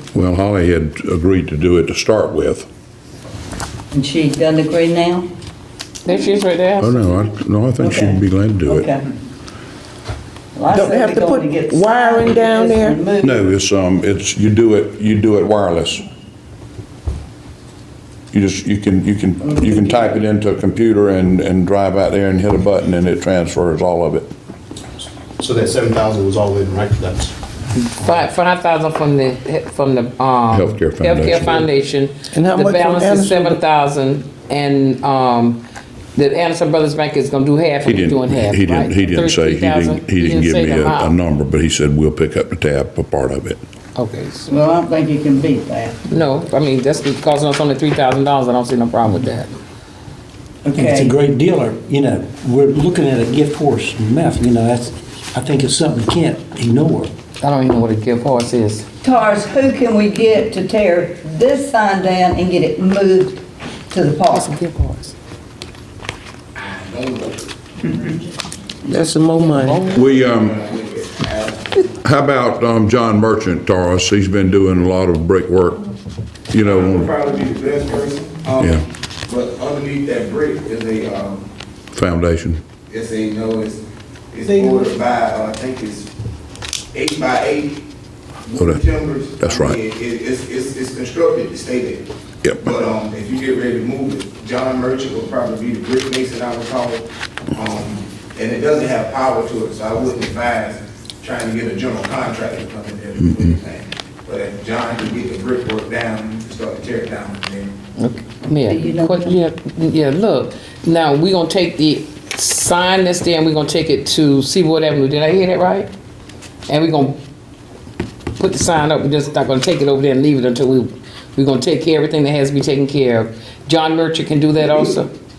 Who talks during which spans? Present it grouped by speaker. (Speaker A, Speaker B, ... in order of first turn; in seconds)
Speaker A: 0.1-2.7, 6.8-8.9, 13.2-16.1, 18.3-24.3, 30.5-31.7, 37.8-43.6, 69.9-70.6, 72.0-75.8, 76.5-77.1, 78.6-78.8, 81.9-82.6, 88.6-88.8, 89.4-89.8
Speaker B: 3.9-5.3, 7.8-9.1, 10.5-13.4, 19.4-20.2, 44.5-46.0, 50.6-51.1, 59.0-64.5, 108.6-109.4
Speaker C: 6.0-7.1, 27.8-35.6, 36.1-41.1, 44.0-44.5, 46.1-49.5, 57.4-58.9, 64.3-65.1, 108.0-115.9, 116.7-117.2, 118.4-125.1
Speaker D: 10.7-13.0, 32.3-33.6, 68.8-69.9
Speaker E: 25.4-27.3
Speaker F: 50.7-57.1
Speaker G: 66.5-67.8, 69.7-71.9, 76.6-81.5, 82.9-86.1, 86.9-87.8, 88.4-92.0, 92.6-107.7